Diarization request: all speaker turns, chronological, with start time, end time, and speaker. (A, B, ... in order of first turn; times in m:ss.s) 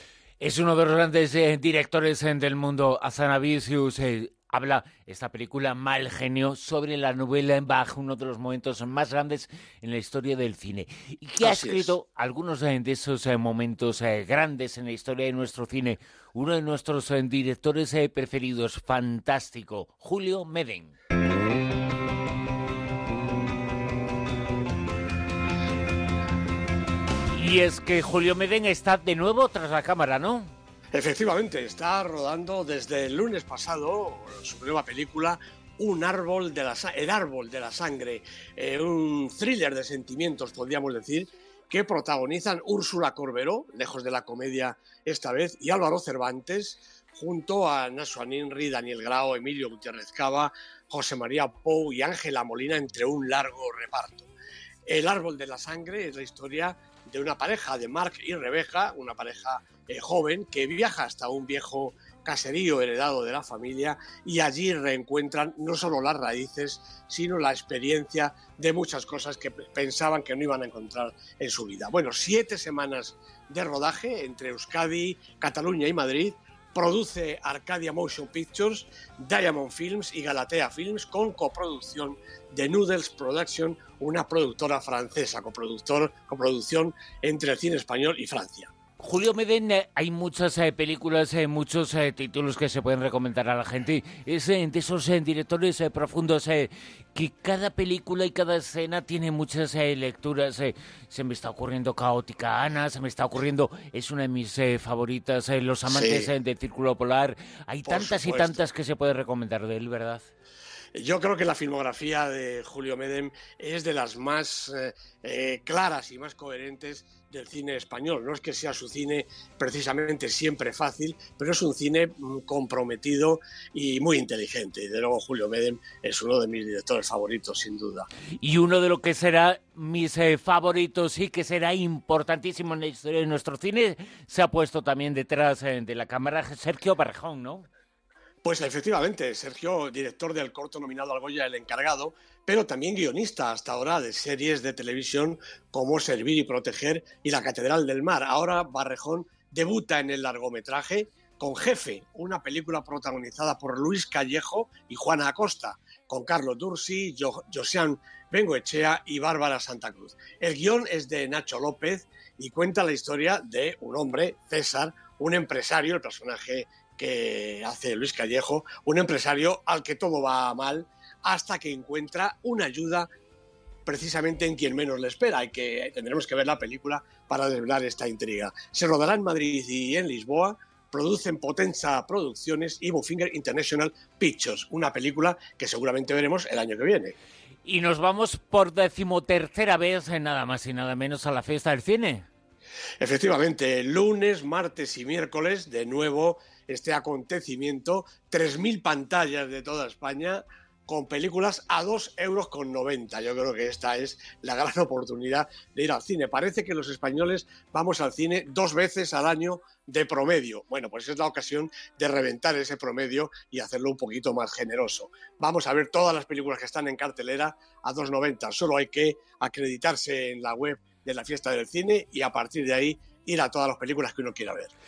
0:00.4-0:21.0 A
0:11.4-0:12.0 B
0:27.3-0:30.6 A
0:30.9-0:54.3 B
0:54.9-1:28.7 B
1:29.0-1:50.3 A
1:45.9-1:46.3 B
1:47.9-1:48.6 B
1:51.0-2:08.1 B
2:08.4-2:17.7 A
2:18.4-2:53.1 B
2:53.9-3:07.2 B
3:07.6-3:12.3 A
3:13.0-3:44.7 B